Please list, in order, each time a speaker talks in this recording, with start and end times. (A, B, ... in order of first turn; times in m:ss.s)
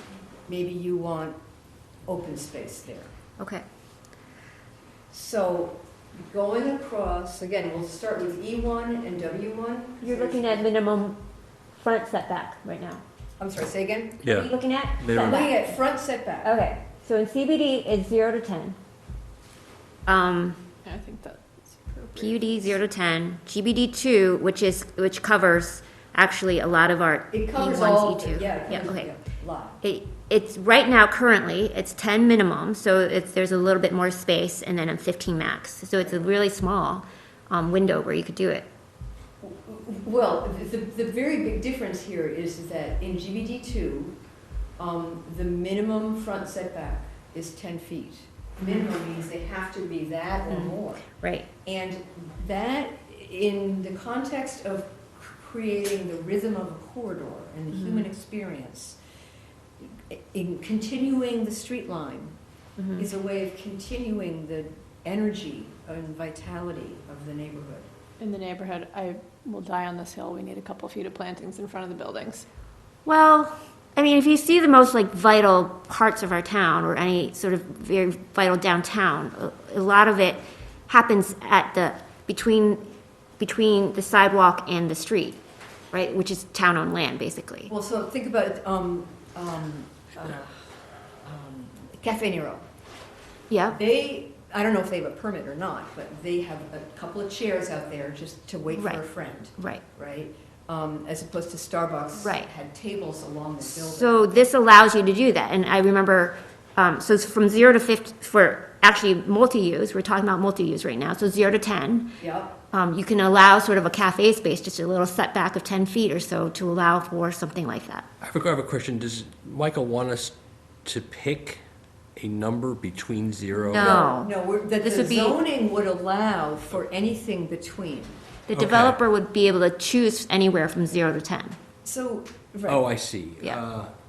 0:00.4-0:01.4 A
0:02.1-0:03.1 A
0:03.4-0:03.6 B
0:05.1-0:10.7 A
0:10.0-0:11.2 B
0:11.7-0:13.0 B
0:13.4-0:14.4 A
0:14.2-0:15.4 C
0:14.3-0:15.7 B
0:15.1-0:16.6 A
0:16.4-0:18.8 B
0:20.0-0:20.6 B
0:20.8-0:22.8 D
0:22.2-0:29.1 B
0:27.3-0:29.8 A
0:29.8-0:38.7 B
0:36.0-0:36.3 A
0:39.4-0:44.1 A
0:44.8-0:51.1 A
0:48.6-0:48.9 B
0:50.5-0:51.5 B
0:51.6-0:59.0 A
0:57.7-0:58.1 B
0:59.8-1:02.3 A
1:02.8-1:03.0 B
1:03.0-1:07.9 A
1:08.2-1:12.4 D
1:13.0-1:22.9 B
1:23.4-1:25.4 B
1:25.9-1:27.7 B
1:27.7-1:30.6 A
1:31.2-1:32.6 A
1:33.5-1:33.8 B
1:33.7-1:44.5 A
1:38.7-1:39.0 B
1:39.6-1:39.8 B
1:42.2-1:42.5 B
1:43.6-1:52.1 B
1:52.2-1:52.6 A
1:52.7-1:58.1 B
1:58.2-2:01.6 C
2:02.2-2:04.0 C
2:03.7-2:05.4 B
2:03.7-2:08.2 A
2:08.5-2:11.6 B
2:08.5-2:09.0 C
2:11.8-2:12.8 A
2:12.7-2:13.9 C